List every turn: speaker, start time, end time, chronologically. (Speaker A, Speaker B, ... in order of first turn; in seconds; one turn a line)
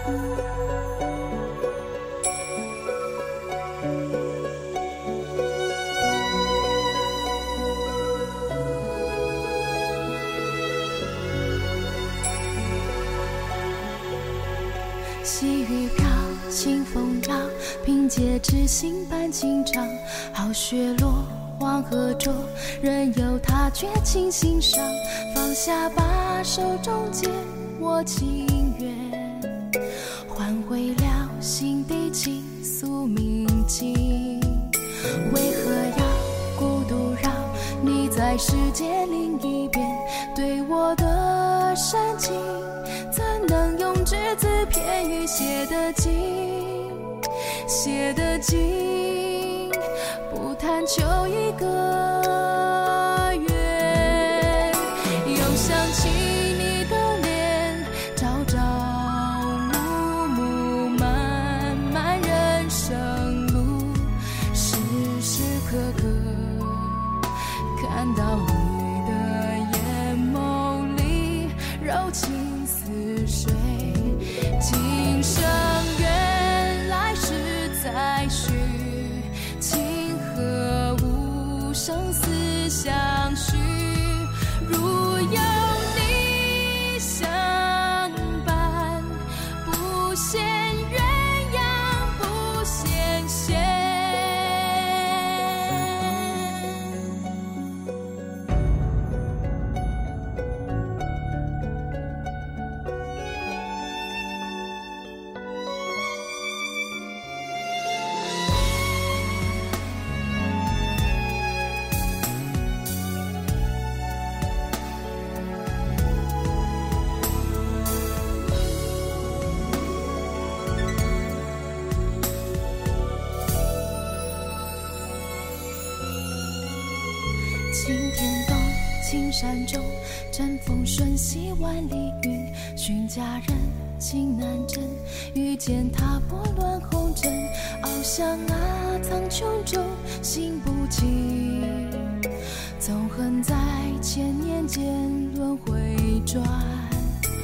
Speaker A: 15.2-29.6
Speaker A: 30.3-47.1
Speaker A: 47.7-96.9
Speaker A: 127.7-142.1
Speaker A: 142.8-147.2